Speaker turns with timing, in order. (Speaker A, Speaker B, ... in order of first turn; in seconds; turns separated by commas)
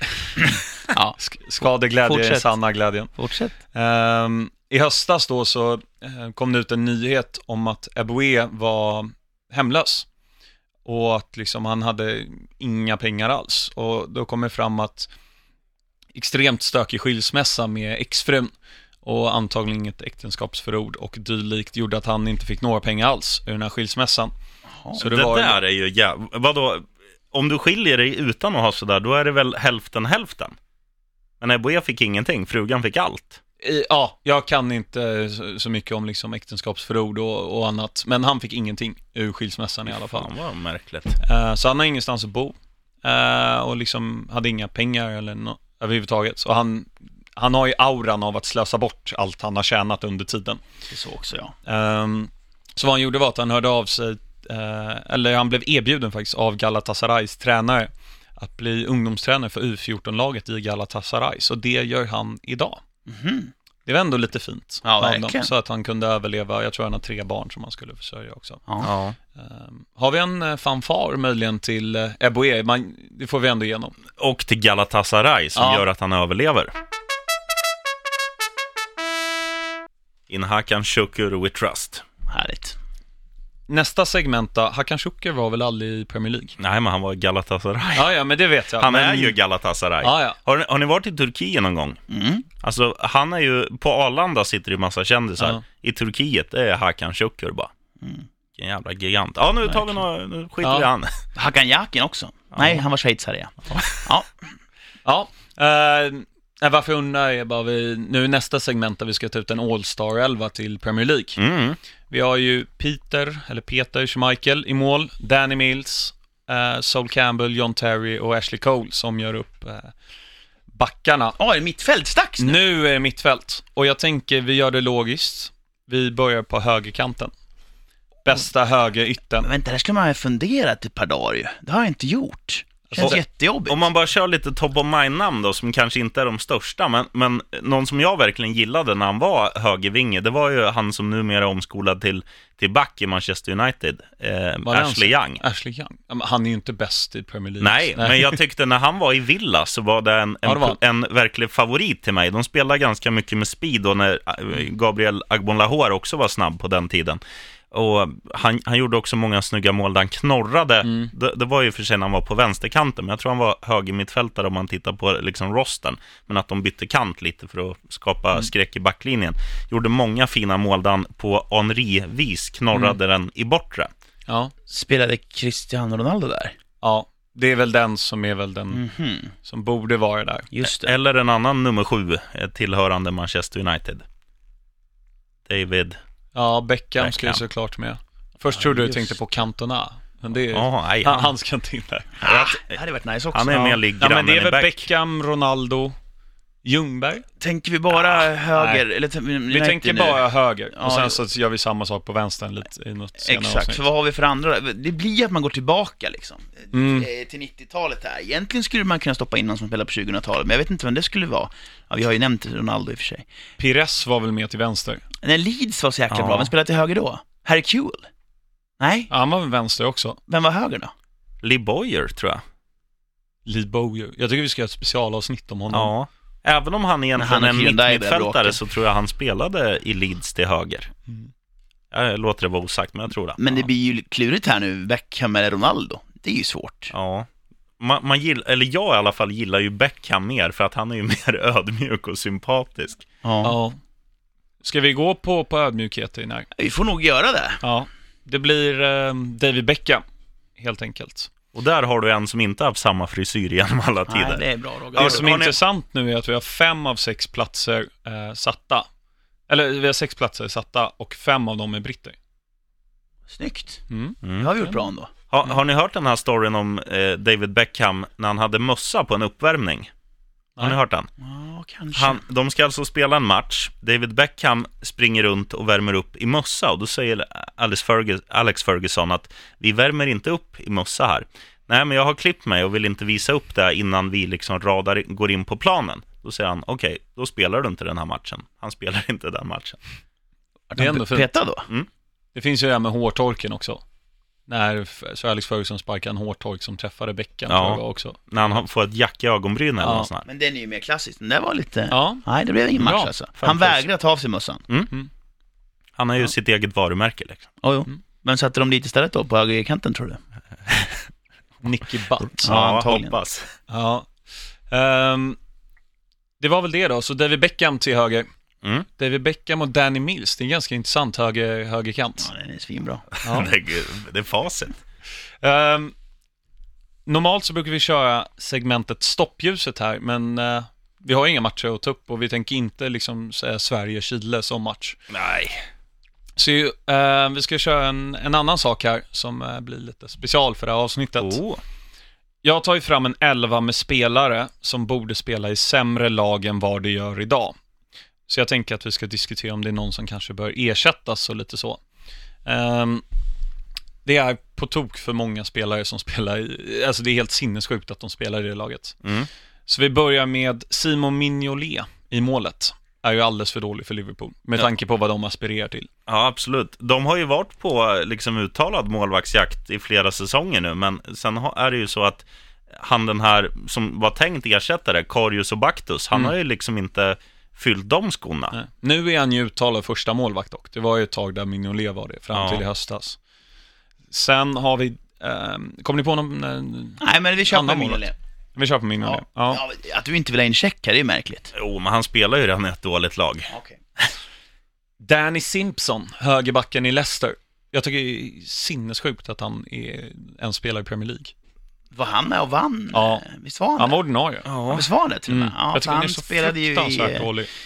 Speaker A: 0.3-1.2, Speaker B: 1.2-3.1, Speaker A: 2.0-2.6, Speaker A: 3.2-3.5, Speaker B: 3.7-10.1, Speaker B: 10.8-15.1, Speaker B: 16.1-24.3, Speaker B: 25.0-25.6, Speaker C: 25.0-30.6, Speaker C: 31.4-33.4, Speaker B: 33.6-40.3, Speaker C: 39.9-41.2, Speaker B: 41.2-50.6, Speaker A: 50.9-51.5, Speaker B: 51.7-62.8, Speaker A: 63.1-63.5, Speaker B: 63.9-68.6, Speaker A: 64.8-65.5, Speaker C: 68.8-69.2, Speaker B: 69.3-73.9, Speaker C: 74.2-76.7, Speaker B: 75.6-75.8, Speaker C: 80.3-82.0, Speaker A: 82.3-82.8, Speaker B: 83.7-86.6, Speaker C: 86.6-88.1, Speaker B: 88.0-89.3, Speaker C: 88.8-92.0, Speaker A: 88.9-89.3, Speaker B: 90.0-90.4, Speaker A: 92.1-92.5, Speaker C: 92.6-97.7, Speaker A: 98.0-98.3, Speaker C: 98.6-101.1, Speaker B: 100.6-100.9, Speaker A: 101.4-104.5, Speaker C: 102.5-102.8, Speaker B: 105.0-111.4, Speaker C: 111.4-111.8, Speaker B: 112.1-120.0, Speaker B: 120.7-121.4, Speaker A: 121.4-122.6, Speaker B: 122.4-127.3, Speaker B: 128.2-129.5, Speaker A: 129.4-133.9, Speaker B: 132.9-133.2, Speaker C: 133.0-145.4, Speaker B: 144.7-148.4, Speaker C: 147.6-157.2, Speaker B: 150.4-150.8, Speaker C: 157.7-173.9, Speaker B: 160.8-161.1, Speaker B: 174.3-174.5, Speaker A: 174.7-176.6, Speaker B: 176.8-178.8, Speaker A: 178.7-179.3, Speaker B: 179.4-180.5, Speaker A: 180.5-180.9, Speaker C: 180.6-184.0, Speaker C: 185.5-186.0, Speaker B: 186.3-192.2, Speaker C: 187.0-187.4, Speaker C: 190.5-191.3, Speaker A: 192.2-193.7, Speaker C: 192.3-192.8, Speaker C: 193.3-194.9, Speaker B: 193.5-195.9, Speaker B: 196.6-197.2, Speaker A: 197.4-201.2, Speaker B: 198.5-198.8, Speaker B: 199.5-203.8, Speaker A: 203.2-213.3, Speaker B: 206.7-207.1, Speaker B: 213.6-215.0, Speaker A: 215.2-218.1, Speaker C: 216.1-216.5, Speaker A: 218.8-219.1, Speaker B: 219.1-220.2, Speaker A: 220.3-220.9, Speaker C: 221.4-222.4, Speaker B: 223.5-225.9, Speaker C: 225.7-230.9, Speaker A: 227.2-228.6, Speaker C: 231.9-233.4, Speaker A: 233.4-236.9, Speaker C: 236.9-237.3, Speaker C: 237.8-243.1, Speaker A: 243.2-243.6, Speaker B: 243.4-243.8, Speaker B: 244.6-246.5, Speaker A: 246.5-247.6, Speaker B: 247.6-250.0, Speaker B: 250.6-251.3, Speaker C: 251.5-255.6, Speaker A: 254.1-255.3, Speaker B: 255.0-258.9, Speaker B: 259.5-262.2, Speaker A: 263.3-263.8, Speaker B: 263.9-264.7, Speaker C: 264.2-264.5, Speaker A: 264.4-265.1, Speaker C: 265.3-269.9, Speaker C: 270.6-271.1, Speaker A: 271.2-272.2, Speaker C: 271.9-289.8, Speaker A: 290.7-291.7, Speaker B: 290.8-291.3, Speaker B: 292.4-293.8, Speaker B: 294.5-298.6, Speaker C: 297.5-300.3, Speaker B: 299.8-300.1, Speaker A: 300.3-304.6, Speaker B: 301.9-303.8, Speaker C: 306.0-307.5, Speaker A: 307.6-310.9, Speaker B: 311.6-312.5, Speaker A: 312.4-313.2, Speaker C: 312.4-313.5, Speaker B: 313.7-314.1, Speaker B: 314.7-315.4, Speaker B: 316.4-318.3, Speaker B: 319.0-322.3, Speaker A: 322.2-323.1, Speaker C: 323.2-324.8, Speaker B: 323.2-323.5, Speaker B: 325.4-325.9, Speaker B: 327.1-335.0, Speaker C: 335.1-335.7, Speaker B: 336.4-341.4, Speaker C: 341.2-341.6, Speaker B: 342.4-347.6, Speaker B: 348.3-351.8, Speaker B: 352.4-353.0, Speaker B: 354.1-359.0, Speaker C: 359.0-359.3, Speaker B: 359.7-365.9, Speaker C: 366.1-378.6, Speaker B: 378.5-383.2, Speaker C: 382.3-382.6, Speaker B: 384.1-388.0, Speaker A: 387.0-388.1, Speaker B: 388.6-389.6, Speaker A: 389.0-391.5, Speaker C: 391.5-393.5, Speaker A: 393.5-393.8, Speaker B: 395.0-401.3, Speaker A: 401.9-404.0, Speaker B: 402.9-403.2, Speaker B: 403.8-404.5, Speaker C: 404.5-404.9, Speaker A: 404.7-407.3, Speaker B: 405.3-407.5